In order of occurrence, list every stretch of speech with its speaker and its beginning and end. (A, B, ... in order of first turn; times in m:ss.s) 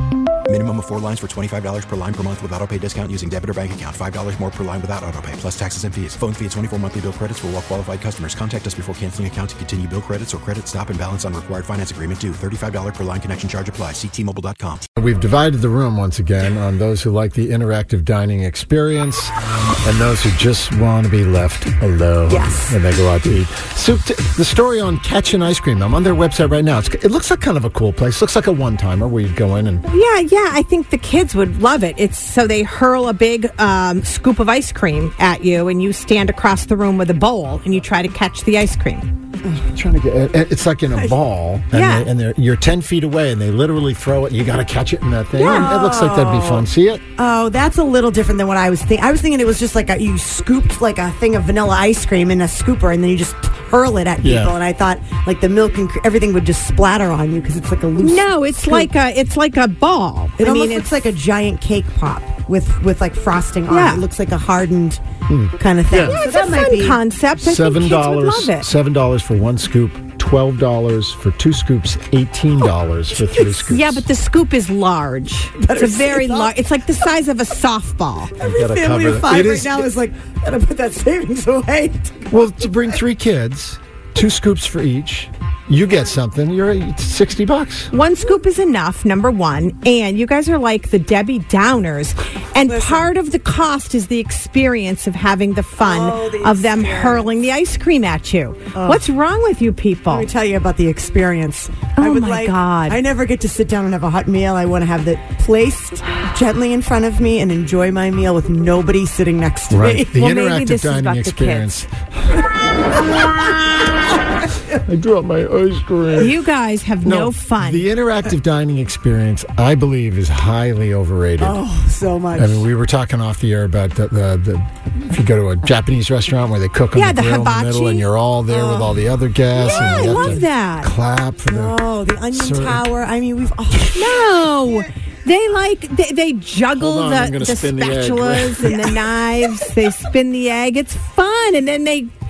0:00.5-0:14.8 A
0:15.0-0:29.8 B
0:22.3-0:22.8 C
0:29.9-0:39.1 D
0:39.6-0:47.0 B
0:41.7-0:42.1 D
0:45.4-0:58.9 C
0:45.4-0:45.7 D
0:54.2-0:54.5 B
0:58.0-1:01.0 D
1:00.4-1:05.0 C
1:03.7-1:04.1 D
1:05.3-1:06.2 B
1:05.6-1:07.0 C
1:06.0-1:08.7 D
1:07.4-1:14.0 B
1:13.2-1:13.6 C
1:13.7-1:18.3 D
1:15.6-1:16.6 C
1:18.4-1:23.0 C
1:18.4-1:19.9 B
1:22.3-1:27.9 B
1:27.9-1:40.3 D
1:32.6-1:33.1 C
1:35.8-1:37.3 C
1:38.8-1:39.1 C
1:40.1-1:50.2 C
1:42.0-1:43.0 D
1:49.7-1:52.4 B
1:50.1-1:51.8 D
1:53.1-1:53.4 C
1:54.5-1:54.8 C
1:54.8-1:56.4 B
1:56.2-1:57.9 D
1:57.0-2:01.6 B
2:01.4-2:02.7 C
2:02.4-2:12.8 B
2:06.9-2:08.1 D
2:08.5-2:10.4 C
2:09.6-2:10.9 D
2:11.5-2:14.9 C
2:13.9-2:22.1 D
2:16.8-2:18.8 B
2:18.6-2:19.1 C